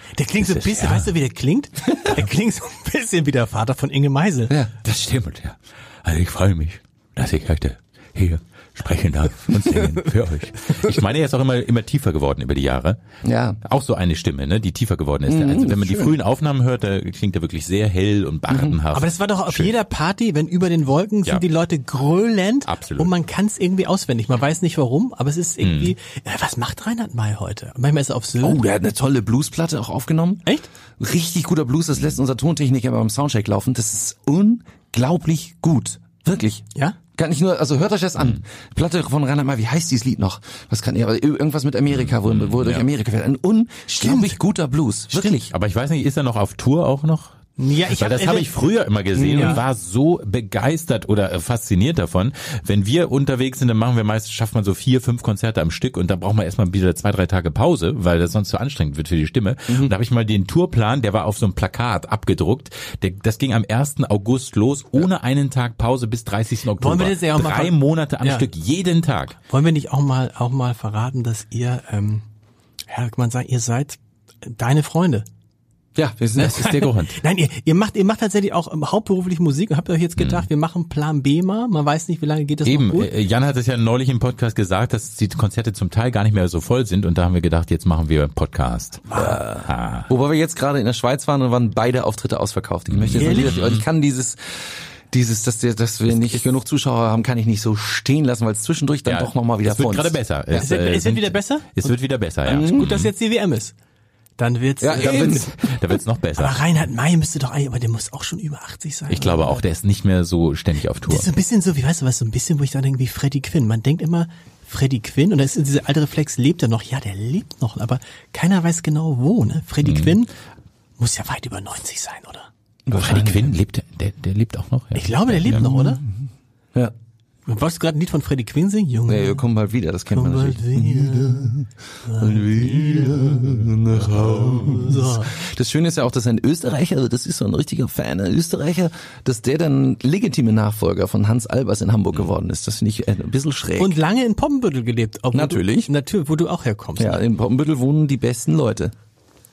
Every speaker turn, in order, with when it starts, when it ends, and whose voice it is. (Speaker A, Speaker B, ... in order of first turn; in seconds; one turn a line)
Speaker A: 0.1-4.5
Speaker B: 0.4-1.1
Speaker B: 4.8-13.0
Speaker C: 13.2-13.6
Speaker B: 13.6-19.7
Speaker C: 15.3-16.2
Speaker C: 18.5-18.8
Speaker A: 18.9-28.6
Speaker B: 22.7-23.1
Speaker B: 25.6-25.9
Speaker C: 28.4-30.5
Speaker C: 31.0-36.6
Speaker C: 37.2-45.5
Speaker B: 41.9-42.9
Speaker A: 44.0-44.4
Speaker B: 45.5-69.4
Speaker A: 47.6-48.6
Speaker C: 49.1-49.6
Speaker A: 49.3-49.6
Speaker C: 59.7-59.9
Speaker A: 66.8-68.5
Speaker A: 69.4-72.2
Speaker A: 72.9-75.3
Speaker C: 76.0-77.0
Speaker A: 76.4-83.1
Speaker B: 76.4-77.1
Speaker B: 80.2-80.5
Speaker B: 82.7-90.1
Speaker A: 89.1-89.4
Speaker C: 89.2-94.6
Speaker B: 92.9-93.9
Speaker A: 93.2-93.7
Speaker C: 95.1-100.7
Speaker B: 99.1-103.1
Speaker A: 100.5-102.0
Speaker C: 102.5-103.0
Speaker A: 102.5-103.8
Speaker A: 104.4-105.7
Speaker C: 104.8-105.5
Speaker B: 104.9-106.6
Speaker A: 106.3-109.7
Speaker B: 109.1-111.3
Speaker A: 111.1-120.3
Speaker B: 119.8-120.1
Speaker A: 121.0-122.5
Speaker C: 122.9-123.6
Speaker B: 122.9-125.8
Speaker A: 125.0-126.0
Speaker C: 125.5-125.8
Speaker A: 127.5-129.4
Speaker C: 129.1-144.0
Speaker A: 130.1-133.5
Speaker A: 134.2-135.3
Speaker A: 143.8-147.2
Speaker C: 145.3-145.9
Speaker C: 147.0-148.9